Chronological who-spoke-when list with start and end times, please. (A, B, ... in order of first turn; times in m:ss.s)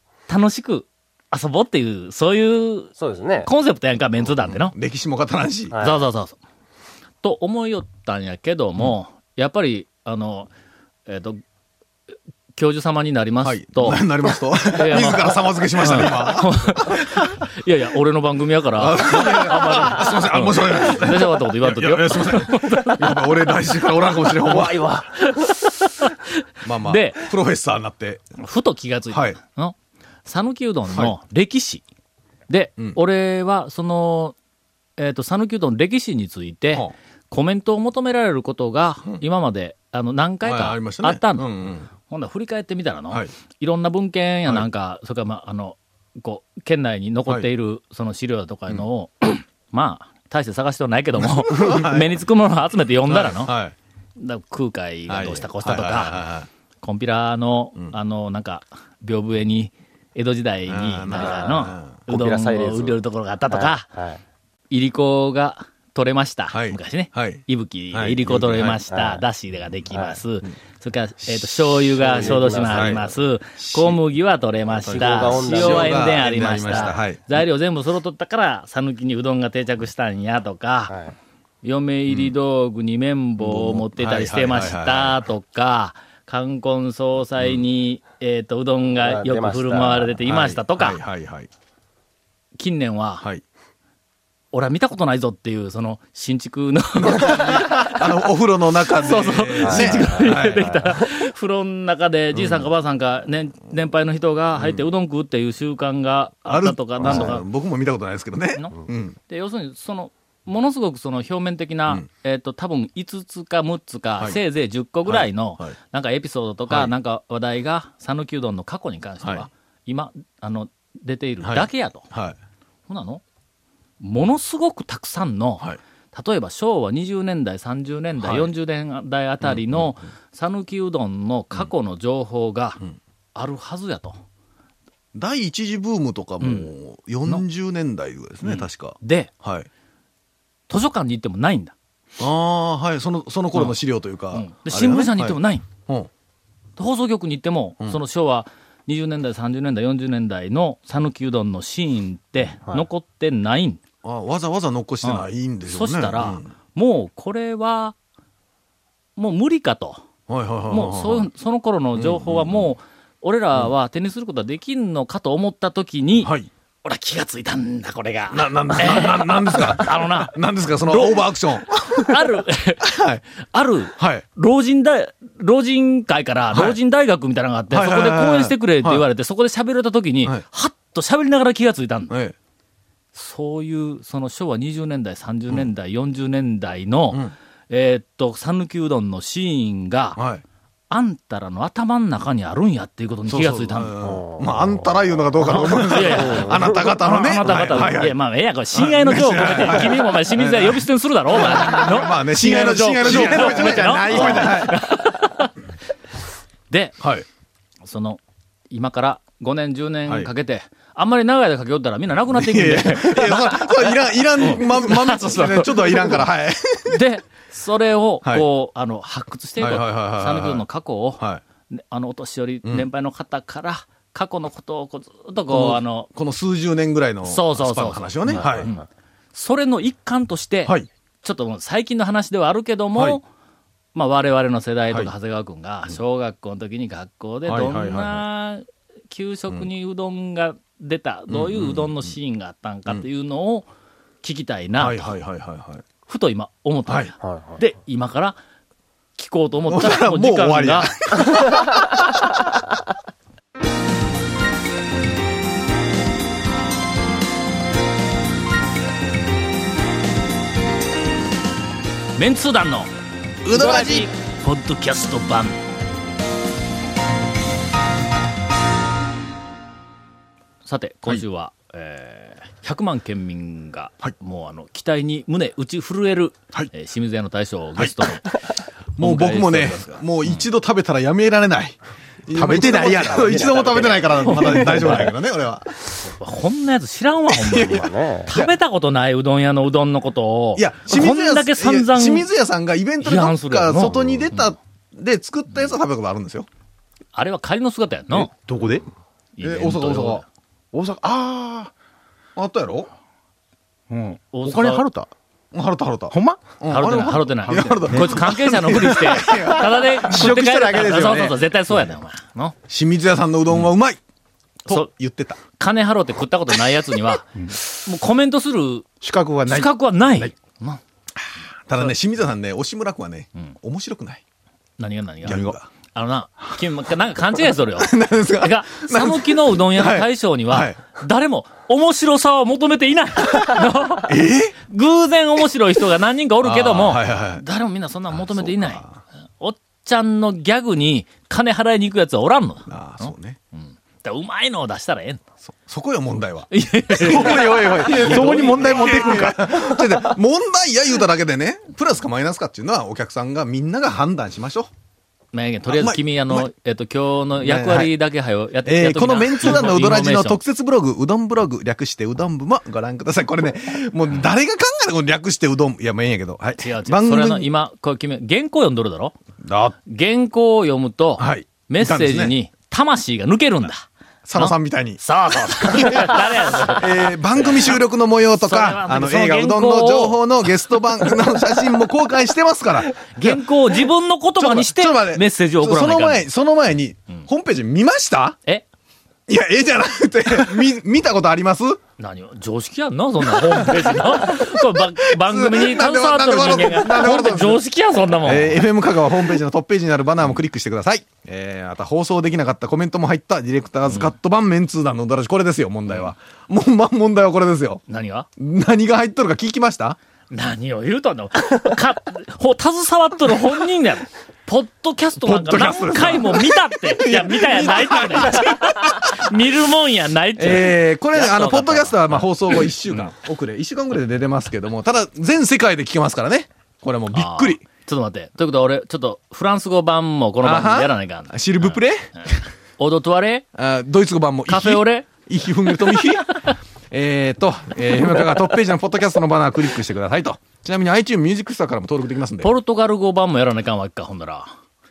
0:00.3-0:04.7 A
0:03.0-0:03.5 B
0:04.2-0:05.8 C
0:05.7-0:06.0 B
0:05.8-0:06.4 A
0:07.2-0:10.5 A
0:11.0-0:11.4 A
0:12.6-0:14.0 A
0:13.4-0:17.3 C
0:14.7-0:23.6 A
0:18.8-0:24.8 C
0:24.4-0:27.3 A
0:24.6-0:25.0 B
0:26.6-0:28.2 C
0:28.4-0:31.8 A
0:29.1-0:29.4 C
0:32.5-0:34.3 A
0:35.0-0:53.5 A
0:40.4-0:41.9 C
0:51.2-0:52.2 C
0:53.0-0:53.7 C
0:54.2-0:56.2 A
0:55.1-0:56.5 C
0:56.8-1:03.9 A
1:00.7-1:02.0 C
1:01.1-1:04.2 B
1:04.7-1:20.9 A
1:06.5-1:08.8 C
1:08.9-1:09.2 B
1:09.9-1:10.2 B
1:11.9-1:14.0 C
1:12.0-1:13.1 B
1:14.8-1:17.0 B
1:14.8-1:17.4 C
1:20.9-1:21.1 B
1:21.6-1:31.0 A
1:22.1-1:22.3 C
1:23.4-1:25.2 C
1:27.4-1:27.6 C
1:29.0-1:30.2 B
1:30.2-1:31.5 C
1:32.6-1:33.3 A
1:34.5-1:38.0 A
1:37.0-1:40.8 C
1:38.9-1:47.4 A
1:39.6-1:40.9 B
1:42.3-1:42.7 C
1:44.6-1:44.8 C
1:46.4-1:49.2 C
1:47.0-1:47.4 B
1:48.6-2:02.1 A
1:55.0-1:55.8 C
1:56.7-1:56.9 C
1:59.2-1:59.5 C
2:01.4-2:02.4 C
2:02.9-2:03.2 A
2:04.0-2:12.8 A
2:08.2-2:08.5 C
2:09.4-2:09.9 C
2:13.3-2:14.2 A
2:15.1-2:19.7 C
2:16.4-2:16.7 A
2:18.4-2:19.3 A
2:20.7-2:21.7 A
2:22.2-2:26.1 C
2:24.3-2:25.6 A
2:26.8-2:33.8 A
2:34.0-2:36.5 C
2:35.0-2:38.0 A
2:39.2-2:40.0 A
2:40.3-2:41.3 C
2:40.7-2:46.3 A
2:42.0-2:42.7 C
2:46.2-2:46.5 C
2:46.8-2:52.8 A
2:48.3-2:53.2 C
2:53.5-3:02.1 A
2:54.0-2:54.2 C
2:56.5-2:56.8 C
2:57.7-2:59.0 C
3:02.1-3:02.3 C
3:03.1-3:10.2 A
3:10.2-3:10.4 C
3:10.9-3:13.9 A
3:13.3-3:18.2 C
3:14.0-3:14.9 B
3:15.4-3:25.5 A
3:16.1-3:16.7 B
3:18.7-3:24.8 C
3:23.0-3:24.7 D
3:26.7-3:27.0 A
3:27.0-3:27.2 C
3:27.8-3:36.2 A
3:32.3-3:37.0 C
3:36.9-3:46.1 A
3:39.6-3:40.6 C
3:45.5-3:48.7 C
3:47.2-3:53.2 A
3:48.4-3:48.7 B
3:53.9-4:03.7 A
3:57.4-3:58.2 C
4:01.3-4:02.1 C
4:04.2-4:05.1 A
4:04.8-4:05.8 C
4:06.0-4:08.4 A
4:06.9-4:07.1 C
4:07.2-4:07.6 B
4:09.2-4:11.5 A
4:09.7-4:11.8 C
4:22.2-4:22.9 A
4:23.4-4:24.1 C
4:23.5-4:25.6 A
4:30.6-4:40.4 A
4:37.8-4:38.0 C
4:39.0-4:45.7 C
4:42.3-4:43.3 D
4:43.0-4:45.0 B
4:44.2-4:45.1 A
4:45.9-4:52.3 A
4:47.3-4:48.5 C
4:47.6-4:48.3 B
4:50.6-4:56.5 C
4:53.0-4:54.4 A
4:57.1-4:58.3 A
4:58.1-4:58.8 D
4:59.4-5:00.3 A
4:59.4-5:00.2 C
5:00.7-5:01.7 D
5:02.4-5:02.9 C
5:03.9-5:05.1 D
5:04.3-5:04.8 A
5:05.5-5:10.1 C
5:06.1-5:06.4 D
5:06.7-5:12.6 A
5:07.2-5:08.3 D
5:09.2-5:11.4 D
5:12.7-5:14.0 C
5:14.6-5:15.4 C
5:15.6-5:18.8 A
5:19.0-5:20.3 D
5:19.4-5:20.8 A
5:21.7-5:24.2 C
5:24.8-5:38.8 A
5:25.2-5:25.7 C
5:27.8-5:30.8 C
5:34.0-5:34.5 C
5:36.4-5:37.4 C
5:38.1-5:39.0 C
5:39.4-5:45.2 A
5:42.7-5:43.4 C
5:45.5-5:54.7 C
5:46.5-5:49.2 A
5:47.6-5:50.0 D
5:55.3-6:00.4 A
5:55.7-5:56.5 C
5:57.4-5:57.9 C
5:58.6-6:07.5 C
6:06.6-6:09.1 A
6:09.4-6:09.8 C
6:09.8-6:17.8 A
6:11.2-6:12.3 C
6:14.2-6:15.0 C
6:15.6-6:23.4 C
6:18.3-6:20.4 A
6:23.1-6:26.3 A
6:24.4-6:28.4 C
6:29.3-6:31.8 C
6:32.0-6:38.6 A
6:33.2-6:37.6 C
6:38.2-6:47.8 C
6:43.9-6:44.1 A
6:47.9-6:48.3 A
6:48.4-6:50.0 C
6:50.3-7:03.1 A
6:55.2-6:58.5 C
7:00.4-7:07.6 C
7:07.1-7:13.4 A
7:10.4-7:12.4 C
7:13.5-7:22.5 C
7:14.5-7:15.1 A
7:15.7-7:16.5 A
7:22.4-7:24.5 A